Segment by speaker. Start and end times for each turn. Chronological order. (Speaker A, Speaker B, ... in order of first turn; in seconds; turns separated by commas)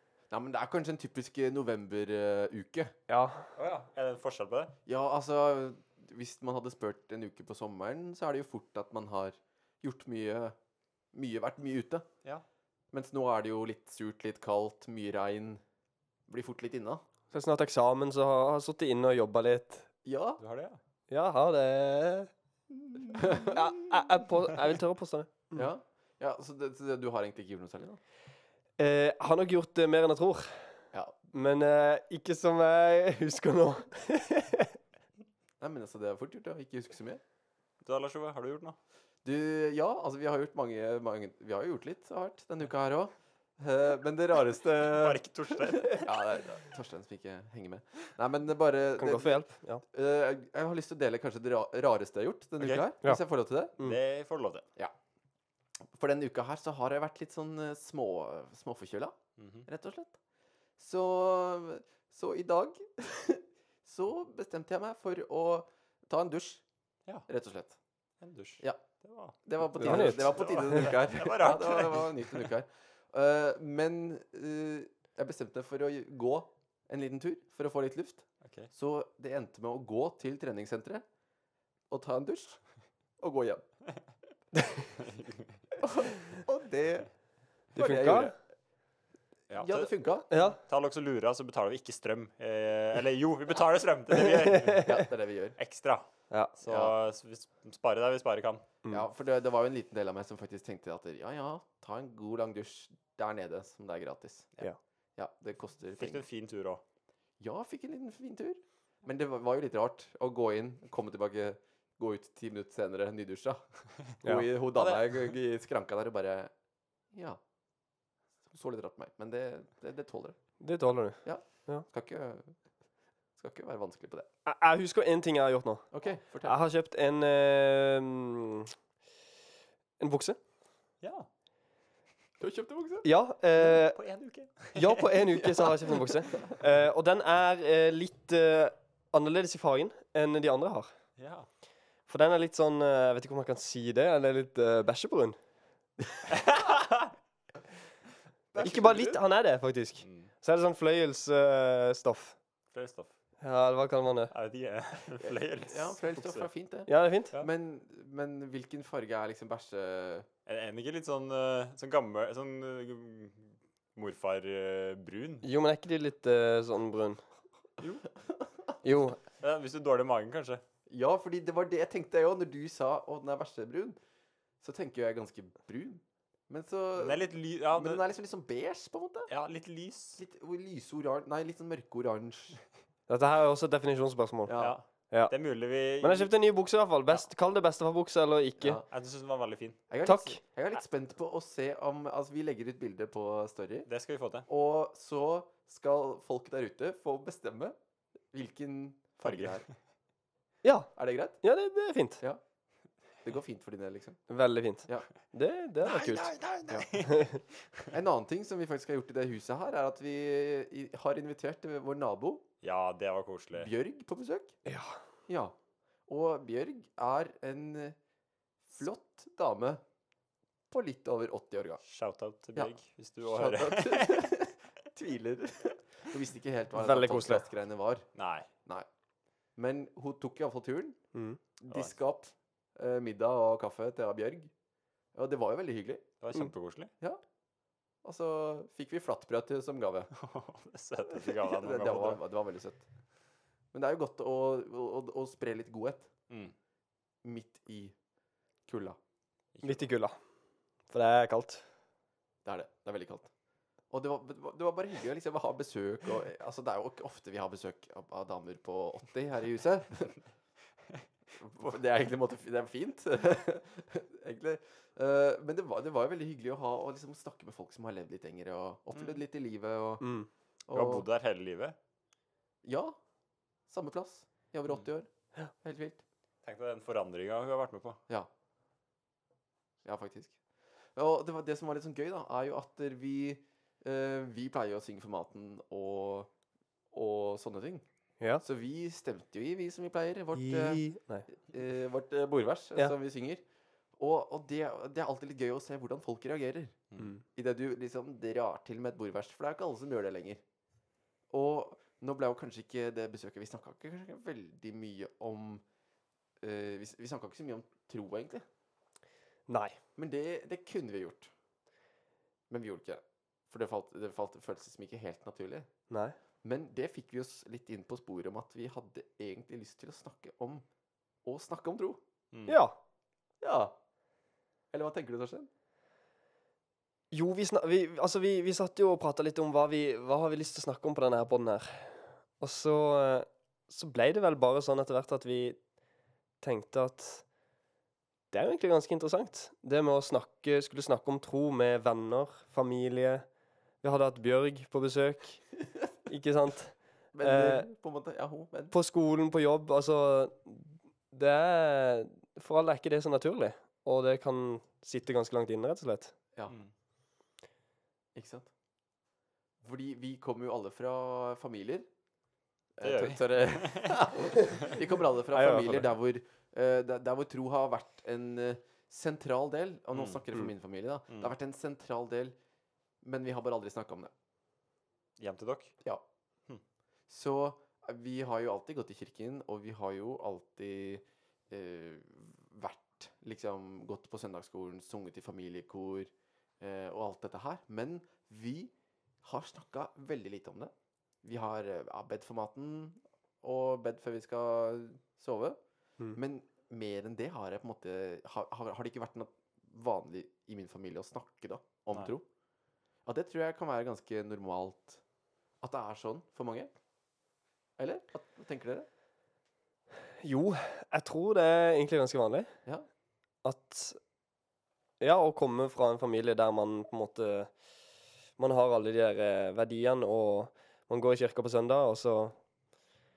Speaker A: 0.3-3.0, Speaker B: 3.1-3.5, Speaker C: 3.5-4.7, Speaker A: 4.8-10.5, Speaker A: 11.1-12.1, Speaker A: 12.9-15.6, Speaker A: 16.3-17.0, Speaker B: 17.3-19.9, Speaker A: 20.0-20.4, Speaker C: 20.4-20.8, Speaker B: 21.1-22.3, Speaker A: 23.1-23.6, Speaker B: 23.1-25.6, Speaker A: 25.5-28.0, Speaker B: 28.8-30.7, Speaker B: 31.3-34.8, Speaker A: 35.6-37.2, Speaker C: 37.8-38.8, Speaker A: 39.2-53.7, Speaker C: 44.8-46.1, Speaker B: 49.0-49.8, Speaker C: 52.6-52.8, Speaker C: 53.8-54.6, Speaker A: 55.8-60.2, Speaker C: 59.4-59.6, Speaker A: 60.8-66.6, Speaker A: 67.3-67.8, Speaker C: 68.2-72.5, Speaker A: 69.4-81.0, Speaker B: 69.8-70.8, Speaker C: 78.4-78.7, Speaker A: 81.9-82.6, Speaker A: 83.2-83.6, Speaker C: 85.0-85.5, Speaker A: 85.8-87.1, Speaker A: 87.7-88.4, Speaker B: 87.7-88.3, Speaker A: 89.5-90.3, Speaker C: 89.5-94.9, Speaker B: 90.3-90.6, Speaker B: 94.2-95.0, Speaker A: 94.8-95.6, Speaker C: 95.6-98.7, Speaker A: 96.7-96.9, Speaker A: 98.9-104.5, Speaker A: 105.2-106.2, Speaker C: 106.0-106.8, Speaker A: 107.4-116.5, Speaker C: 114.7-115.3, Speaker A: 117.1-117.4, Speaker A: 118.5-120.4, Speaker B: 120.6-121.8, Speaker A: 121.2-122.5, Speaker A: 123.3-124.3, Speaker B: 124.5-125.9, Speaker A: 125.9-126.5, Speaker B: 126.4-128.7, Speaker B: 130.0-130.4, Speaker C: 131.0-131.3, Speaker A: 132.4-133.1, Speaker B: 133.0-134.0, Speaker C: 133.6-135.4, Speaker B: 134.7-140.9, Speaker C: 141.2-141.5, Speaker B: 142.1-145.4, Speaker C: 146.3-147.1, Speaker A: 148.5-149.2, Speaker B: 148.6-152.3, Speaker C: 150.0-150.3, Speaker C: 152.7-153.1, Speaker B: 153.4-154.3, Speaker C: 154.3-156.5, Speaker A: 155.2-160.2, Speaker B: 156.9-157.3, Speaker C: 160.5-165.4, Speaker B: 165.4-167.2, Speaker C: 167.8-168.1, Speaker B: 168.8-169.2, Speaker C: 169.4-170.6, Speaker A: 170.9-174.0, Speaker A: 174.6-179.3, Speaker C: 176.9-178.0, Speaker C: 179.3-180.2, Speaker A: 180.2-182.6, Speaker B: 183.1-184.6, Speaker A: 184.4-184.8, Speaker C: 184.6-186.3, Speaker B: 186.0-188.8, Speaker A: 188.6-188.9, Speaker C: 188.9-189.8, Speaker A: 189.9-193.9, Speaker B: 190.0-190.4, Speaker C: 193.9-194.5, Speaker A: 194.5-197.7, Speaker A: 198.3-199.7, Speaker C: 199.2-199.7, Speaker B: 200.6-200.9, Speaker A: 200.9-201.4, Speaker B: 201.4-202.2, Speaker A: 203.2-204.2, Speaker B: 204.3-206.3, Speaker C: 205.8-207.9, Speaker B: 207.0-207.4, Speaker A: 207.9-212.4, Speaker C: 212.6-213.7, Speaker A: 213.5-214.6, Speaker B: 214.7-215.0, Speaker A: 215.3-215.5, Speaker A: 216.1-217.9, Speaker A: 218.7-219.8, Speaker A: 220.7-221.8, Speaker C: 221.8-224.3, Speaker A: 223.2-228.1, Speaker B: 226.7-227.5, Speaker C: 228.2-228.5, Speaker A: 229.6-231.0, Speaker B: 231.1-231.4, Speaker A: 231.6-234.5, Speaker A: 235.1-236.1, Speaker C: 236.2-236.9, Speaker A: 238.0-240.1, Speaker C: 240.1-242.2, Speaker A: 241.1-242.8, Speaker A: 243.7-246.1, Speaker A: 247.2-247.9, Speaker A: 248.7-249.0, Speaker C: 249.5-249.9, Speaker B: 249.6-250.2, Speaker B: 250.9-251.6, Speaker A: 252.4-253.3, Speaker A: 253.9-260.2, Speaker A: 261.3-270.1, Speaker C: 268.9-269.2, Speaker B: 270.0-270.3, Speaker A: 270.7-271.1, Speaker C: 270.7-271.8, Speaker A: 272.6-272.9, Speaker A: 273.7-275.1, Speaker A: 275.6-276.0, Speaker C: 276.4-278.0, Speaker A: 279.8-280.4, Speaker A: 280.9-286.3, Speaker A: 286.9-287.8, Speaker A: 288.4-293.4, Speaker B: 290.3-291.2, Speaker A: 294.0-296.8, Speaker B: 297.0-297.2, Speaker A: 297.3-300.4, Speaker A: 301.3-305.6, Speaker A: 306.4-308.4, Speaker B: 309.5-309.8, Speaker A: 310.0-311.3, Speaker A: 312.5-315.7, Speaker B: 315.9-316.1, Speaker A: 316.4-320.6, Speaker A: 321.2-322.0, Speaker C: 322.3-322.6, Speaker B: 322.4-322.8, Speaker A: 323.4-323.7, Speaker A: 324.7-325.5, Speaker B: 327.1-335.6, Speaker B: 336.4-337.2, Speaker B: 338.3-343.2, Speaker B: 343.8-345.4, Speaker B: 346.1-347.6, Speaker A: 347.1-348.7, Speaker B: 348.7-356.1, Speaker A: 358.1-358.5, Speaker A: 359.6-361.9, Speaker A: 362.8-372.3, Speaker C: 362.8-364.8, Speaker B: 365.3-365.9, Speaker C: 369.9-370.2, Speaker A: 373.0-374.1, Speaker C: 375.2-375.7, Speaker A: 377.1-388.7, Speaker A: 389.2-390.7, Speaker A: 391.2-395.6, Speaker A: 396.1-402.2, Speaker A: 403.0-405.0, Speaker A: 405.6-406.7, Speaker A: 407.8-408.9, Speaker B: 410.2-412.5, Speaker B: 413.4-414.0, Speaker B: 415.0-417.5, Speaker B: 418.4-422.4